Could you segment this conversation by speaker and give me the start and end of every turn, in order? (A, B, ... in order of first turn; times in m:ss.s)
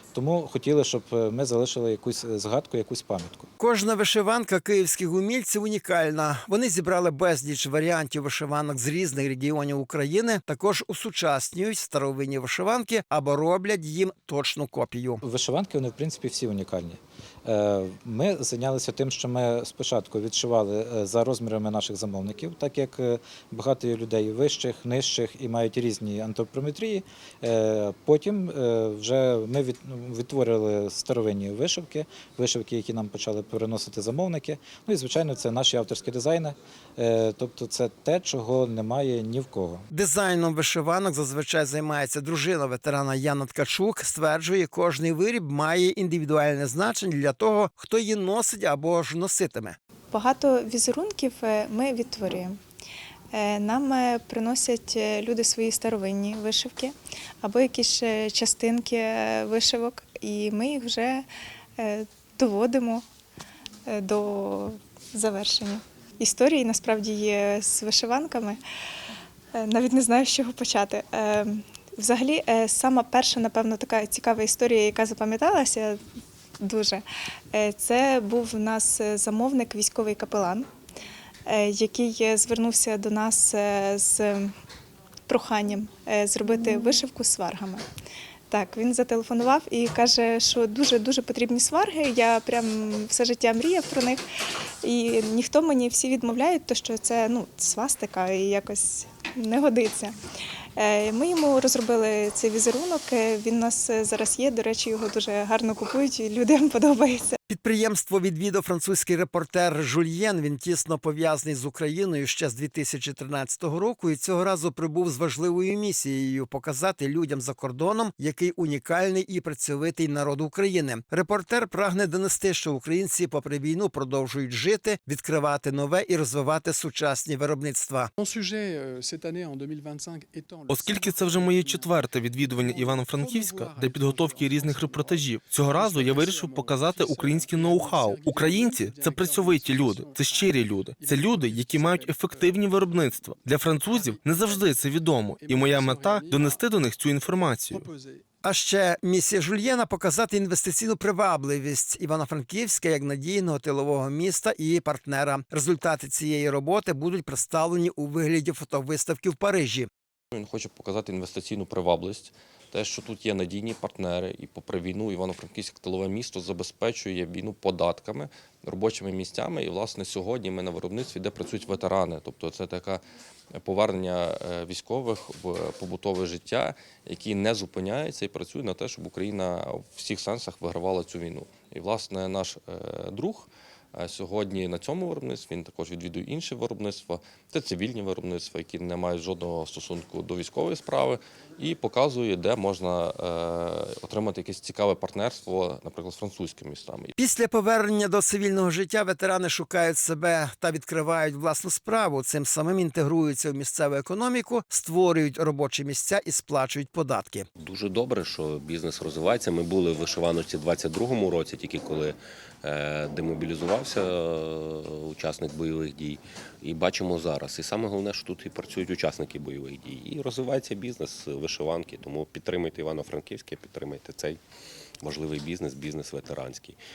0:00.1-0:03.5 A
0:03.6-0:15.2 B
0:15.2-0:39.9 A
0:39.9-0:49.8 B
0:50.1-0:52.6 C
0:53.3-1:01.2 C
1:01.8-1:03.0 C
1:03.9-1:08.6 C
1:09.5-1:16.0 C
1:16.6-1:20.7 C
1:21.4-1:24.5 C
1:25.3-1:27.8 C
1:28.5-1:34.2 C
1:34.8-1:40.2 C
1:40.8-1:47.4 C
1:47.5-2:08.1 B
2:08.2-2:26.7 D
2:10.7-2:27.9 E
2:27.7-2:28.2 D
2:28.4-2:39.9 B
2:40.3-2:53.0 F
2:53.6-3:17.1 F
3:17.2-3:27.5 B
3:27.6-3:44.4 G
3:45.0-3:46.8 G